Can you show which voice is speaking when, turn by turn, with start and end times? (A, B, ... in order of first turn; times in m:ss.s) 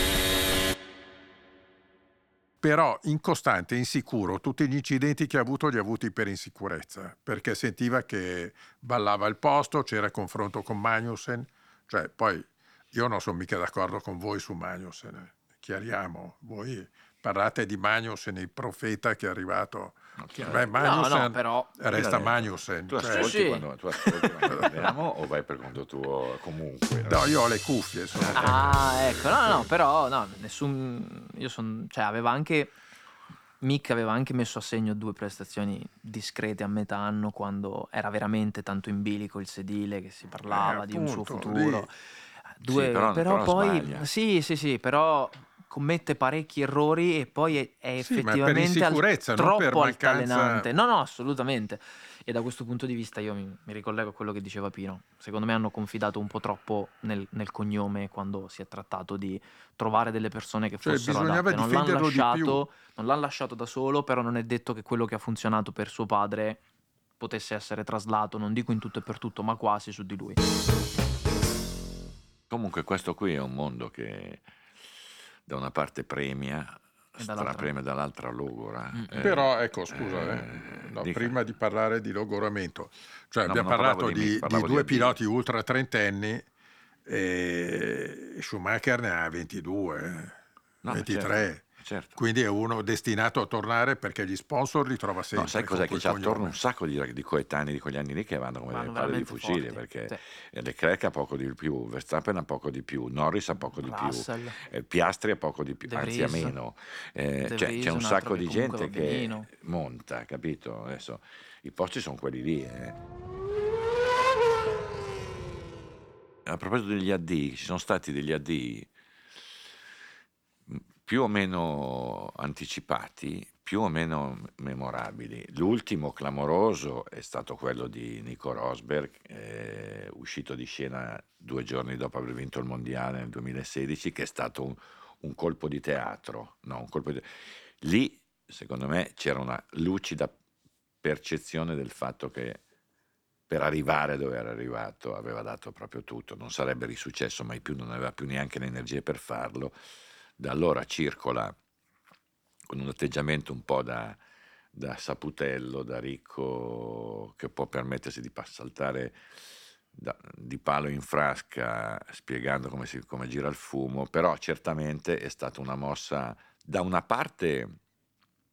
0:02.6-0:23.4 A
0:20.2-0:20.9 B
0:20.8-0:21.8 C
0:21.9-0:27.4 B
0:23.1-0:23.6 C
0:24.4-0:24.9 A
0:27.0-0:28.8 A
0:28.1-0:29.6 B
0:28.4-0:32.7 C
0:33.6-0:42.0 C
0:40.5-0:41.9 A
0:42.6-1:06.6 C
0:42.6-0:44.1 B
0:48.0-0:50.7 A
1:00.8-1:02.6 A
1:07.2-1:10.4 C
1:12.5-1:14.4 B
1:15.5-1:21.4 B
1:17.2-1:17.7 C
1:18.9-1:19.2 C
1:19.2-1:26.4 A
1:23.4-1:25.2 B
1:27.0-1:30.4 A
1:30.8-1:32.2 B
1:30.9-1:31.6 A
1:32.2-1:36.6 A
1:35.3-1:53.0 B
1:38.7-1:40.2 C
1:43.8-1:44.6 C
1:45.9-1:46.5 C
1:47.4-1:49.5 C
1:56.4-1:58.9 B
2:00.7-2:20.3 B
2:21.0-2:22.6 B
2:23.5-2:29.7 B
2:30.4-2:31.6 B
2:32.7-2:34.2 B
2:34.7-2:39.2 B
2:39.9-2:47.8 B